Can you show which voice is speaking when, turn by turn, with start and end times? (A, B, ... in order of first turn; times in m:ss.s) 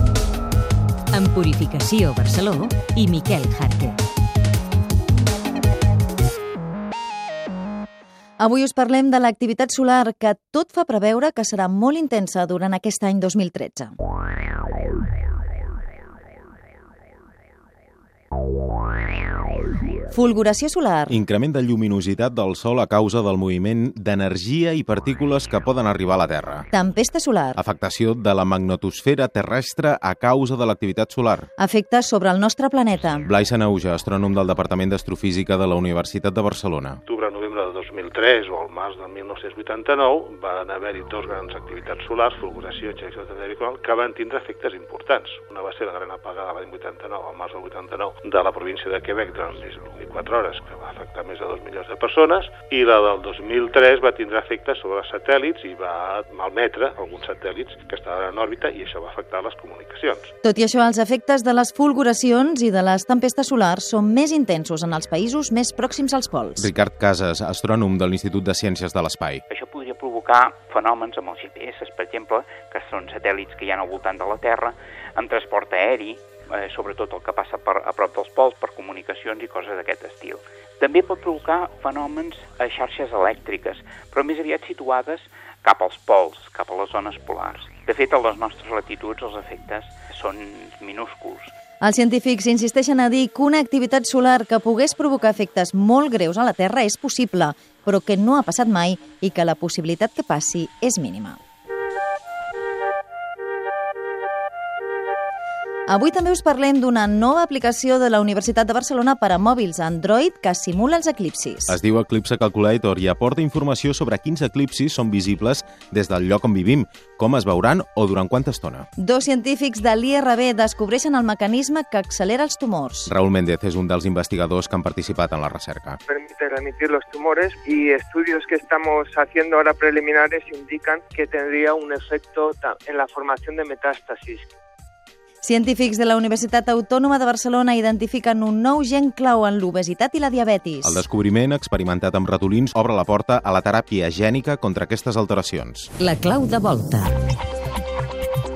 0:01.1-0:04.0 A
0:08.4-0:13.9 B
0:20.1-0:21.2 B
0:21.1-0:26.7 C
0:26.7-0:27.6 B
0:27.6-0:31.5 C
0:31.6-0:33.3 B
0:33.2-0:37.0 C
0:37.1-1:00.3 D
1:00.4-1:06.7 B
1:06.6-1:09.4 C
1:09.5-1:31.5 E
1:31.8-1:41.4 B
1:45.9-1:51.8 B
1:51.7-1:58.9 C
1:59.0-2:03.1 B
2:03.1-2:06.0 C
2:06.1-2:14.5 F
2:15.4-2:21.0 B
2:20.8-2:25.9 C
2:26.0-2:27.2 A